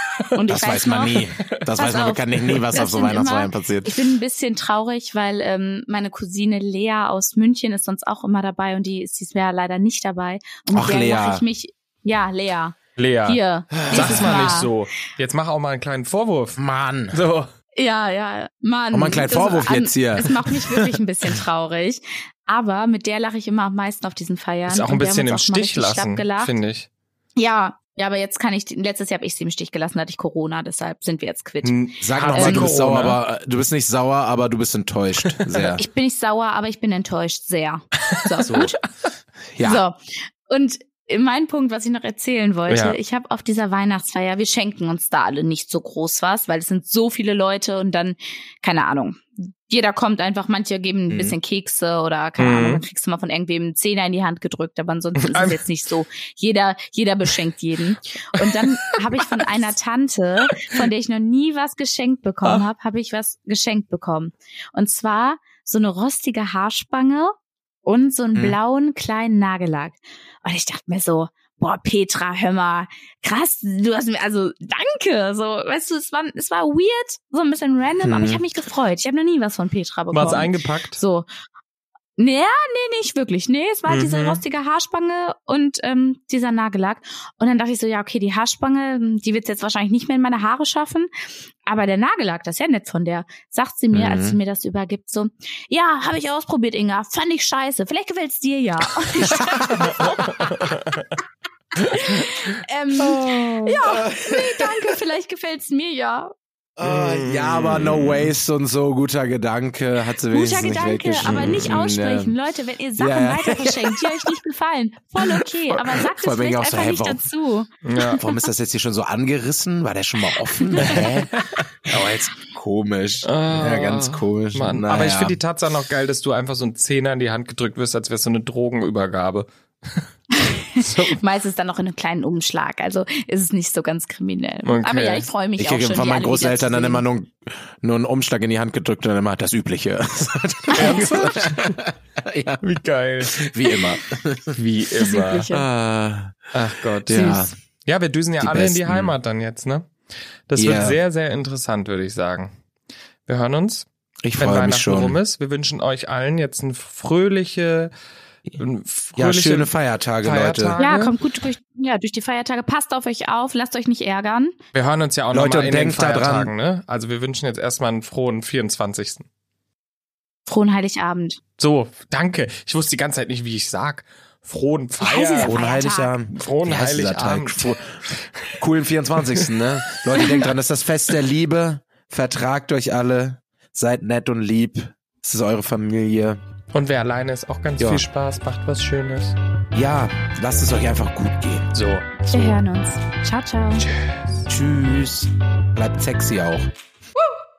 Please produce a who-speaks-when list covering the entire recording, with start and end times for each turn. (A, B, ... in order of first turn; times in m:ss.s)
0:00.3-0:14.7 A
0:00.5-0:04.1 B
0:10.7-0:11.4 B
0:13.0-0:16.6 C
0:13.8-0:14.5 B
0:16.6-0:17.2 B
0:17.1-0:17.5 C
0:17.7-0:26.5 A
0:18.9-0:20.9 B
0:24.7-0:26.9 C
0:27.4-0:32.7 A
0:31.6-0:33.2 C
0:32.0-0:35.8 B
0:35.2-0:35.7 C
0:35.8-0:38.8 A
0:38.1-0:38.7 C
0:39.5-0:39.8 B
0:39.6-1:21.3 A
0:42.7-0:43.0 C
0:51.1-0:51.3 B
0:52.4-0:52.8 C
0:55.2-0:55.6 C
0:58.4-0:59.0 C
1:18.0-1:18.4 B
1:20.1-1:21.0 C
1:22.2-1:31.1 A
1:23.9-1:24.4 C
1:31.6-1:39.8 A
1:33.9-1:34.4 B
1:39.1-1:40.8 B
1:39.7-1:41.2 C
1:41.9-1:46.3 A
1:43.0-1:45.0 B
1:46.8-1:52.3 B
1:46.8-1:48.3 C
1:50.3-1:58.4 A
1:51.2-1:51.7 C
1:53.0-1:54.4 B
1:55.2-1:57.2 B
1:57.8-1:58.2 C
1:58.2-2:05.4 B
2:00.4-2:01.0 A
2:00.8-2:02.1 C
2:03.2-2:10.0 C
2:10.3-2:17.0 A
2:10.8-2:11.2 C
2:14.6-2:15.3 C
2:15.6-2:22.6 B
2:20.7-2:21.1 A
2:20.7-2:21.8 C
2:22.6-2:23.4 C
2:23.2-2:24.6 B
2:24.5-2:25.5 C
2:25.0-2:25.6 A
2:25.5-2:26.4 B
2:26.5-2:29.9 C
2:27.0-2:27.5 B
2:28.4-2:29.1 B
2:30.5-2:32.5 C
2:30.6-2:31.0 B
2:33.2-2:37.9 C
2:34.2-2:35.2 B
2:38.6-2:41.1 C
2:39.2-2:40.8 B
2:40.8-2:44.5 A
2:44.7-2:49.2 C
2:45.3-2:46.5 B
2:50.5-2:51.4 A
2:51.6-2:55.6 C
2:55.0-2:56.1 A
2:55.4-2:58.0 B
2:56.3-2:58.6 C
2:58.6-3:06.4 B
2:59.2-3:00.4 C
3:06.7-3:09.4 C
3:07.8-3:08.0 B
3:09.7-3:11.7 B
3:11.7-3:12.3 C
3:12.3-3:13.9 A
3:12.3-3:12.6 B
3:13.8-3:14.4 C
3:14.5-3:16.7 B